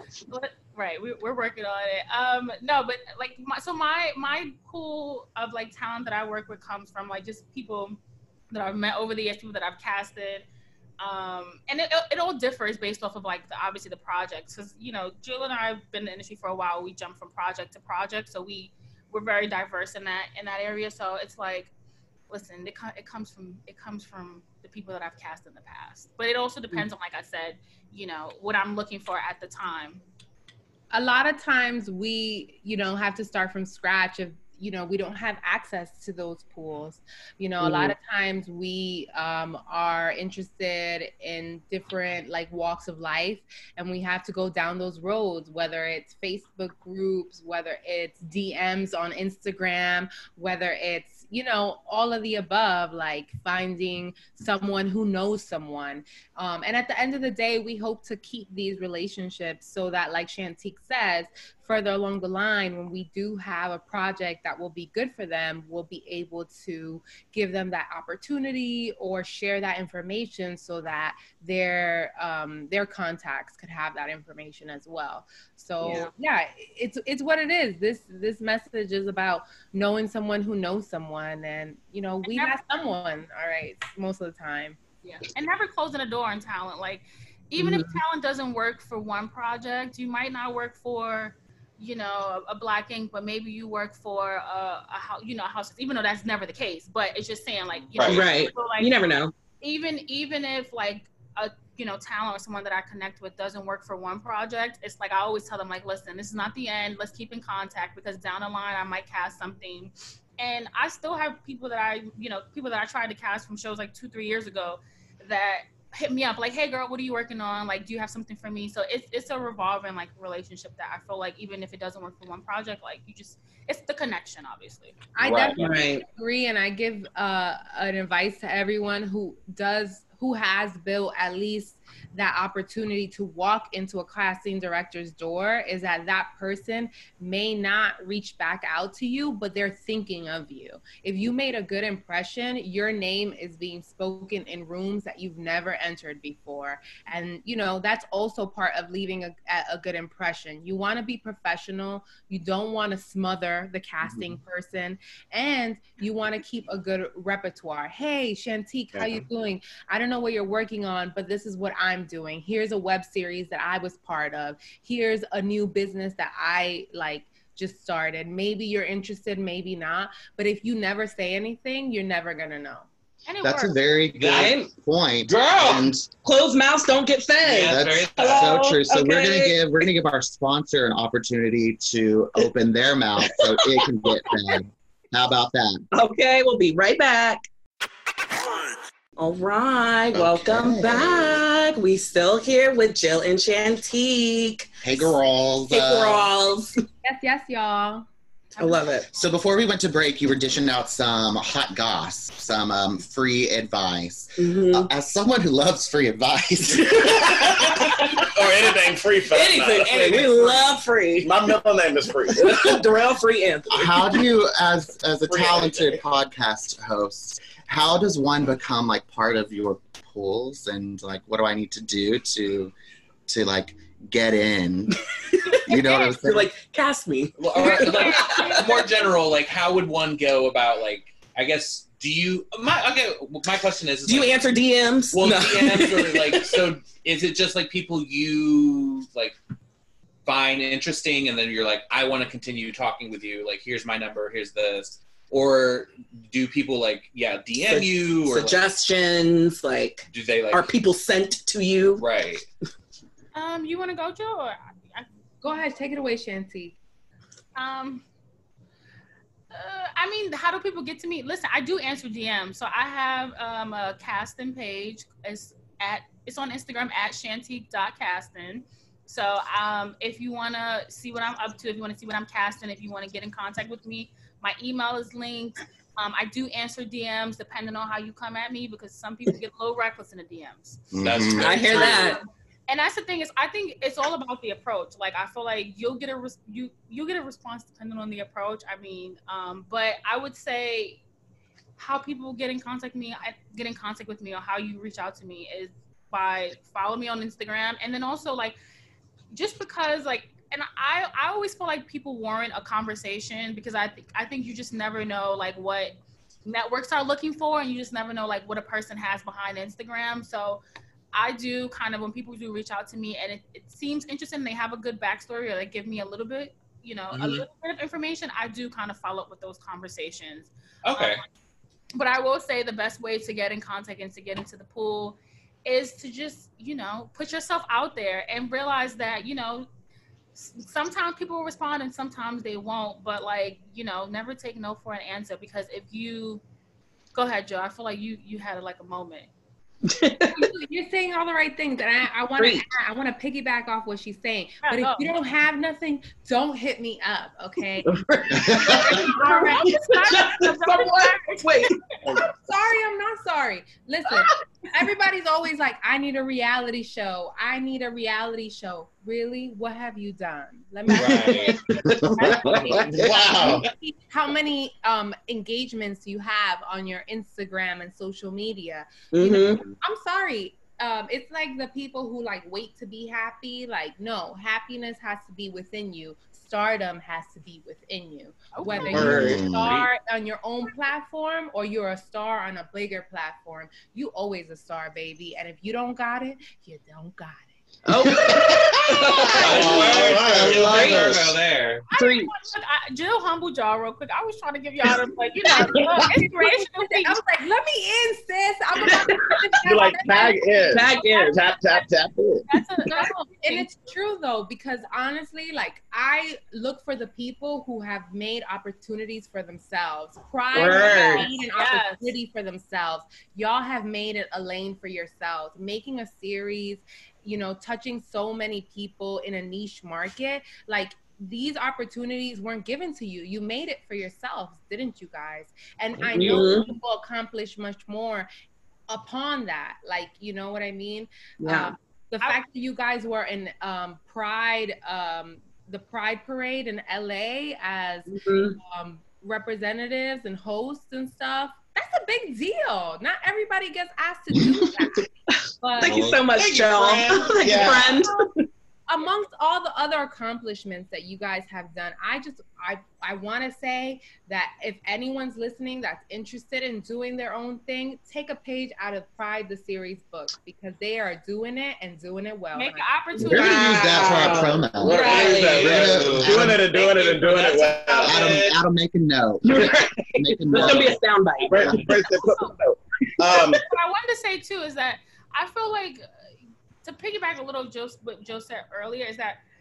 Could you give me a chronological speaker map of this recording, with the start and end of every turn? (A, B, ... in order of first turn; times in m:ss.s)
0:00.3-0:08.0 A
0:08.5-0:10.4 A
0:11.0-0:21.7 A
0:22.3-0:30.0 A
0:30.9-1:24.8 B
0:37.6-0:38.0 C
1:15.8-1:16.1 A
1:22.2-1:22.6 A
1:25.0-2:05.1 A
1:27.6-1:28.0 C
1:37.9-1:38.2 D
1:38.0-1:39.3 C
2:05.2-2:52.9 B
2:05.2-2:05.7 D
2:05.6-2:06.0 C
2:38.9-2:39.2 E
2:53.3-2:54.0 A
2:53.4-2:56.1 F
2:54.2-2:54.7 D
2:54.4-2:54.7 C
2:55.3-2:55.9 D
2:56.2-2:59.6 C
2:57.4-2:58.6 D
2:57.7-3:05.8 F
3:03.4-3:03.8 C
3:05.9-3:07.4 C
3:09.2-3:15.2 C
3:10.1-3:11.4 F
3:14.8-3:16.3 F
3:15.7-3:16.8 C
3:17.0-3:18.1 B
3:18.6-3:19.3 A
3:18.6-3:19.1 C
3:19.1-3:28.0 F
3:24.4-3:24.9 C
3:27.0-3:28.3 C
3:28.2-3:30.6 E
3:29.3-3:31.3 C
3:31.2-3:32.8 E
3:32.4-3:34.1 C
3:33.7-3:42.7 F
3:35.3-3:36.0 E
3:43.3-3:45.0 F
3:45.3-3:48.8 C
3:45.6-3:46.5 F
3:47.4-3:54.4 D
3:47.6-3:48.9 A
3:54.1-3:56.7 C
3:55.1-3:59.4 D
4:00.2-4:08.7 D
4:07.7-4:12.0 C
4:10.1-4:10.7 D
4:12.0-4:12.4 D
4:13.3-4:15.1 A
4:15.4-4:16.8 B
4:17.6-4:18.0 A
4:19.5-4:51.0 A
4:40.9-4:41.5 F
4:41.0-4:42.2 D
4:41.4-4:42.2 C
4:51.8-4:58.6 A
4:59.3-5:10.6 A
5:11.1-5:21.2 A
5:17.1-5:17.5 D
5:20.8-5:21.2 D
5:21.9-5:29.7 A
5:30.4-5:36.4 A
5:37.1-5:39.3 A
5:39.9-5:40.5 C
5:40.3-5:50.1 B
5:42.4-5:42.7 C
5:44.6-5:45.1 A
5:47.8-5:51.8 C
5:48.7-5:52.0 A
5:52.3-6:27.5 B
6:00.9-6:01.6 D
6:00.9-6:03.6 C
6:01.9-6:02.3 F
6:02.4-6:03.7 E
6:09.1-6:09.6 C
6:18.5-6:19.1 A
6:18.8-6:19.9 D
6:18.9-6:19.8 F
6:19.0-6:19.3 C
6:27.9-6:31.2 C
6:29.1-6:29.9 B
6:29.2-6:31.8 D
6:29.4-6:31.2 E
6:29.9-6:31.3 F
6:31.9-6:37.2 A
6:32.0-6:32.3 C
6:35.5-6:40.7 B
6:35.5-6:36.0 C
6:38.9-6:39.4 C
6:39.6-6:42.5 E
6:40.7-6:41.4 C
6:40.8-6:41.9 A
6:42.5-6:43.7 A
6:42.9-7:08.3 B
6:50.5-6:51.3 C
6:50.7-6:52.2 A
7:06.1-7:06.7 C
7:08.9-7:26.1 B
7:11.4-7:11.7 C
7:18.1-7:18.6 C
7:25.3-7:28.4 C
7:25.9-7:26.2 F
7:26.3-7:27.8 D
7:27.4-7:28.0 E
7:28.9-7:43.9 B
7:42.5-7:44.5 A
7:43.2-7:46.6 F
7:43.7-7:45.8 C
7:44.7-7:48.3 E
7:45.0-7:48.6 D
7:48.0-7:51.0 F
7:49.4-7:52.0 C
7:51.4-7:53.6 E
7:52.1-7:52.6 A
7:53.6-7:56.0 A
7:56.8-7:59.4 A